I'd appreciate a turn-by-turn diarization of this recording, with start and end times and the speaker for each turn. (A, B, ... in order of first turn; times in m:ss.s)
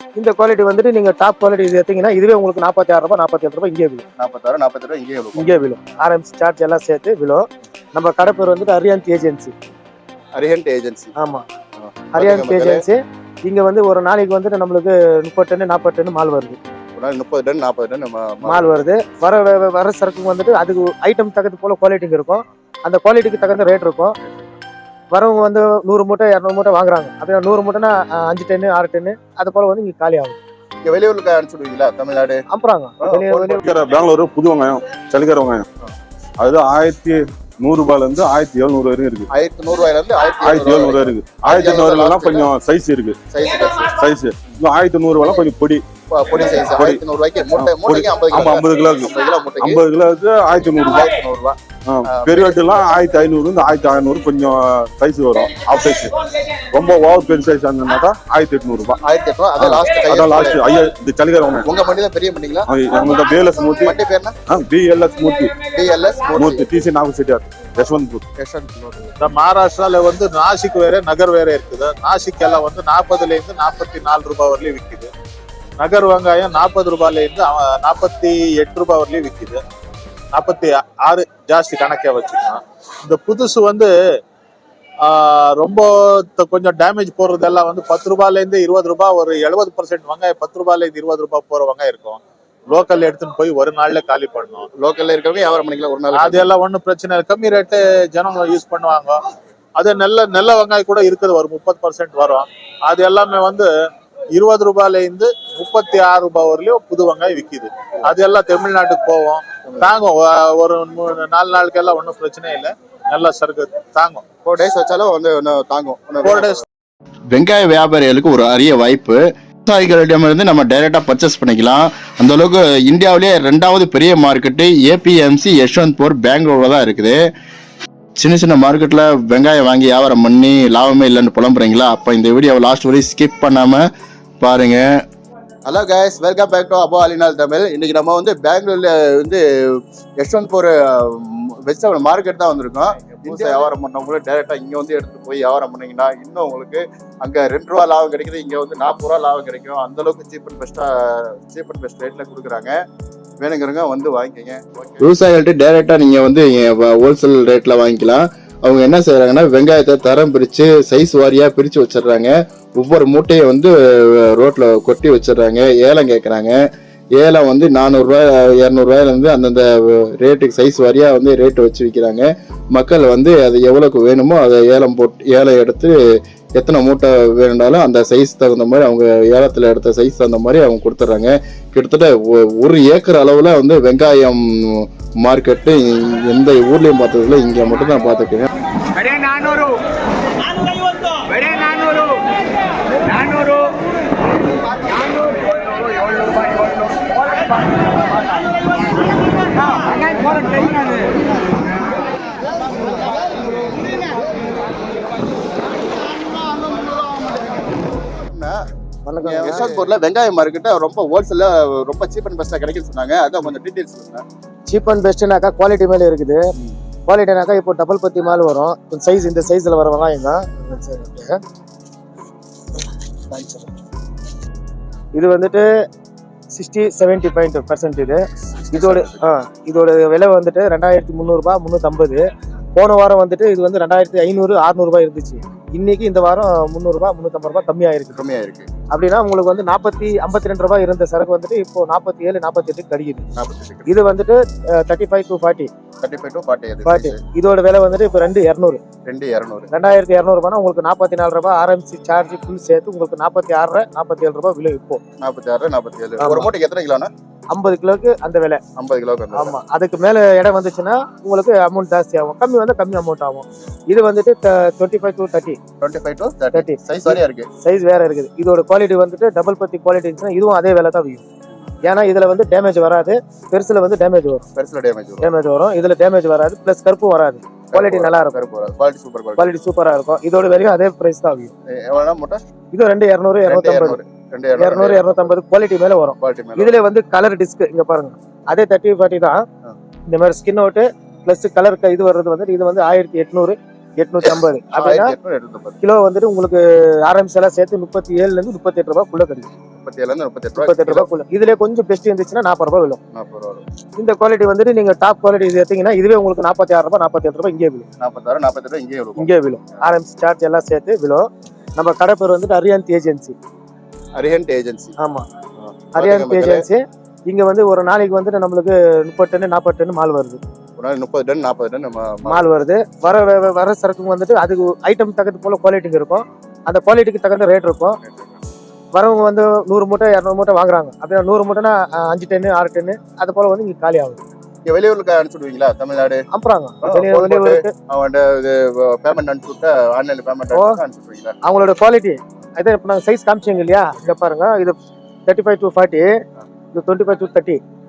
0:00.2-0:04.0 A
0:04.2-0:05.6 B
0:05.4-0:09.5 A
0:10.4-0:11.1 B
0:11.2-0:11.4 A
0:11.8-0:12.8 B
0:12.1-0:16.6 A
0:17.0-0:18.8 B
0:18.5-0:24.2 A
0:24.2-0:24.6 B
0:25.1-0:30.4 A
0:30.8-0:32.4 B
0:32.5-0:33.7 A
0:33.0-0:33.6 B
0:33.6-0:35.7 C
0:36.4-0:39.3 C
0:39.3-0:42.5 B
0:40.4-0:43.2 C
0:43.3-0:43.9 B
0:43.9-0:45.8 C
0:46.1-0:49.8 B
0:46.6-0:47.0 C
0:47.6-0:51.2 C
0:50.6-0:52.8 B
0:51.9-0:59.0 C
0:59.0-1:00.6 B
0:59.6-1:01.7 C
1:01.6-1:02.7 B
1:02.7-1:04.0 C
1:03.8-1:04.4 B
1:04.5-1:05.6 C
1:05.6-1:06.6 B
1:06.3-1:08.2 C
1:08.4-1:09.3 B
1:09.2-1:15.1 D
1:15.8-1:19.6 D
1:20.3-1:23.9 D
1:25.0-1:34.7 D
1:34.8-1:36.5 B
1:36.1-1:39.2 D
1:39.8-1:43.7 D
1:44.4-1:54.2 D
1:54.4-1:56.6 B
1:56.2-1:56.6 D
1:57.3-2:07.3 E
2:08.2-2:13.9 E
2:14.4-2:14.8 E
2:15.7-2:32.8 B
2:23.2-2:23.6 E
2:33.4-2:35.0 B
2:35.0-2:46.6 E
2:47.2-2:56.0 E
2:56.6-3:08.5 E
3:09.0-3:09.8 F
3:11.3-3:12.2 F
3:13.1-3:13.7 F
3:20.2-3:20.8 F
3:28.3-3:28.6 B
3:29.1-3:29.7 A
3:29.2-3:34.2 B
3:34.7-3:36.4 A
3:37.1-3:41.4 A
3:43.3-3:43.8 A
3:45.2-3:45.7 A
3:46.5-3:58.2 A
3:48.5-3:49.2 B
3:58.1-3:58.7 B
3:58.9-4:03.3 A
4:03.4-4:04.0 B
4:03.9-4:05.7 A
4:06.0-4:07.2 B
4:06.8-4:08.8 A
4:09.1-4:09.7 B
4:09.7-4:15.0 A
4:15.2-4:17.1 B
4:16.2-4:16.5 A
4:17.5-4:18.6 A
4:18.8-4:19.6 B
4:19.3-4:25.6 A
4:25.8-4:27.5 B
4:26.5-4:31.2 A
4:31.8-4:34.4 A
4:34.6-4:35.3 B
4:35.2-4:38.4 A
4:37.7-4:39.5 B
4:39.4-4:41.5 A
4:41.7-4:42.4 B
4:42.7-4:44.0 A
4:43.4-4:45.3 B
4:44.6-4:49.4 A
4:46.2-4:46.8 B
4:50.1-4:55.1 A
4:54.7-4:55.8 B
4:55.8-4:59.5 A
4:59.8-5:01.1 B
5:00.6-5:03.0 A
5:03.1-5:03.6 B
5:04.0-5:07.9 A
5:08.0-5:09.8 B
5:09.2-5:13.4 A
5:14.2-5:15.0 B
5:15.0-5:15.3 A
5:15.6-5:16.6 B
5:15.9-5:20.4 A
5:20.8-5:22.5 B
5:22.3-5:28.0 A
5:28.0-5:28.4 B
5:28.9-5:34.2 A
5:34.6-5:36.2 B
5:36.3-5:37.7 A
5:36.8-5:41.4 B
5:41.4-5:46.1 A
5:46.7-5:47.6 A